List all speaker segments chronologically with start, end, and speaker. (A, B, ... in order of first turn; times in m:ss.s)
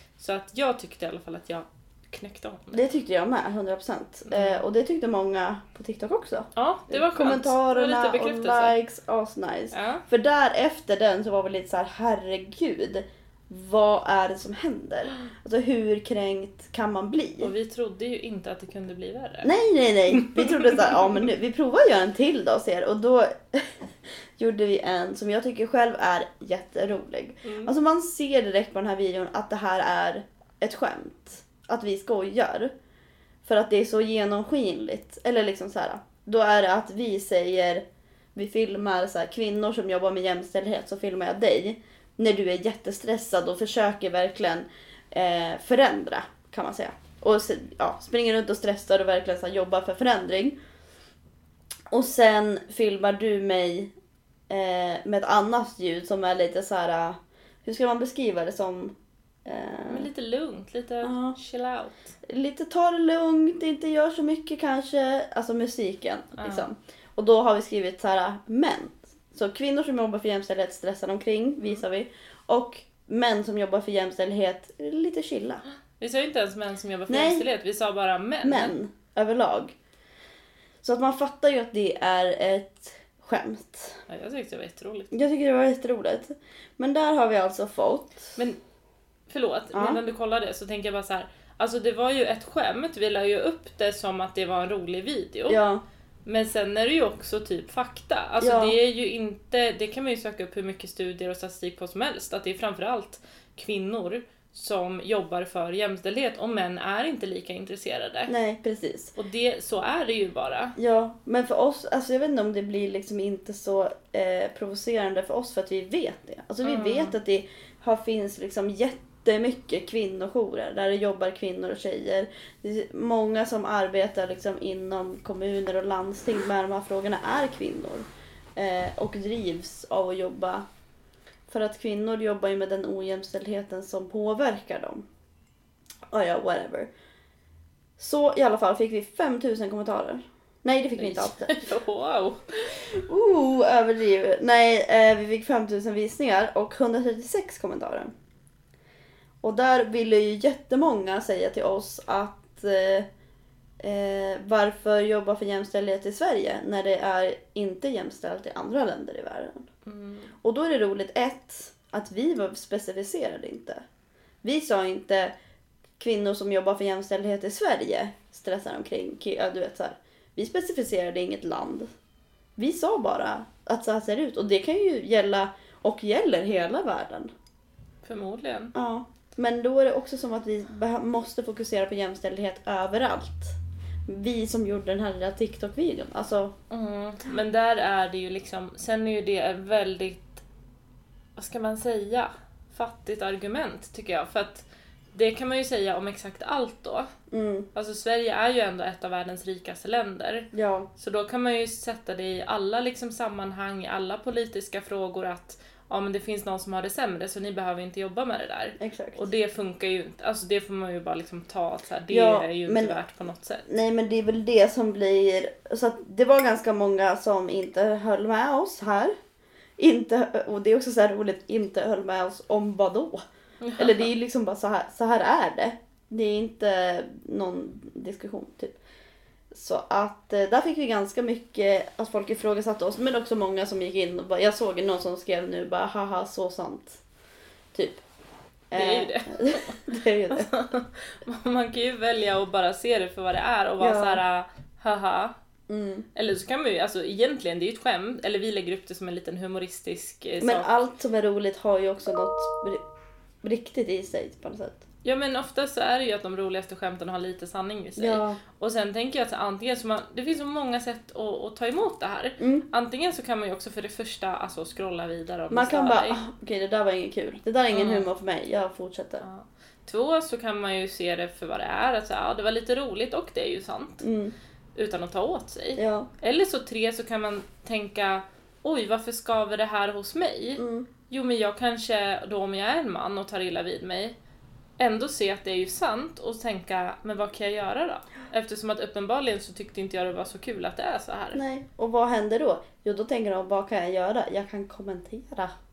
0:00.2-0:02.8 A
0:02.7-0:17.5 B
0:04.3-0:04.6 A
0:06.6-0:08.8 A
0:09.7-0:10.0 A
0:17.4-0:19.5 A
0:19.4-0:23.8 B
0:20.1-0:21.1 A
0:24.4-0:32.7 B
0:27.4-0:27.7 A
0:33.4-0:37.8 B
0:38.4-0:50.6 B
0:51.9-0:53.9 B
0:54.5-1:00.1 B
0:59.9-1:02.1 A
1:01.0-1:01.4 B
1:02.2-1:15.6 B
1:06.4-1:06.7 A
1:16.0-1:18.7 A
1:17.1-1:17.5 B
1:18.4-1:19.8 B
1:20.8-1:24.0 B
1:24.1-1:25.1 A
1:25.1-1:28.4 B
1:29.3-1:35.6 A
1:29.7-1:30.0 B
1:35.5-1:35.8 B
1:36.3-1:48.3 A
1:38.4-1:38.8 B
1:48.3-1:49.1 B
1:49.2-1:50.8 A
1:50.8-2:10.6 B
1:56.6-1:57.2 A
2:11.5-2:15.1 B
2:16.1-2:16.9 B
2:18.0-2:21.7 B
2:21.0-2:22.4 A
2:22.9-2:28.1 B
2:29.4-2:33.1 B
2:33.8-2:39.7 B
2:39.9-2:40.3 A
2:40.4-2:43.8 B
2:44.4-2:45.3 B
2:46.0-2:51.9 B
2:52.6-2:57.3 B
2:58.0-2:58.7 A
2:58.7-3:06.6 B
3:06.7-3:10.4 A
3:11.4-3:17.1 A
3:17.3-3:17.7 B
3:17.7-3:33.6 A
3:20.5-3:20.9 B
3:28.8-3:29.3 B
3:32.1-3:33.0 B
3:33.7-3:39.2 B
3:39.8-3:43.2 B
3:43.6-3:44.1 A
3:43.8-3:48.8 B
3:49.5-3:57.0 B
3:57.7-3:58.0 B
3:58.7-4:00.5 B
3:58.7-4:05.3 A
4:03.8-4:04.2 B
4:05.7-4:06.1 B
4:06.2-4:10.7 A
4:10.4-4:12.8 B
4:13.4-4:14.8 B
4:15.0-4:26.2 A
4:18.0-4:18.4 B
4:22.4-4:22.7 B
4:25.5-4:29.2 B
4:27.7-4:28.1 A
4:29.2-4:34.0 A
4:34.0-4:34.3 B
4:34.8-4:44.2 A
4:35.8-4:36.1 B
4:40.6-4:40.9 B
4:44.8-4:51.4 A
4:51.3-4:55.5 B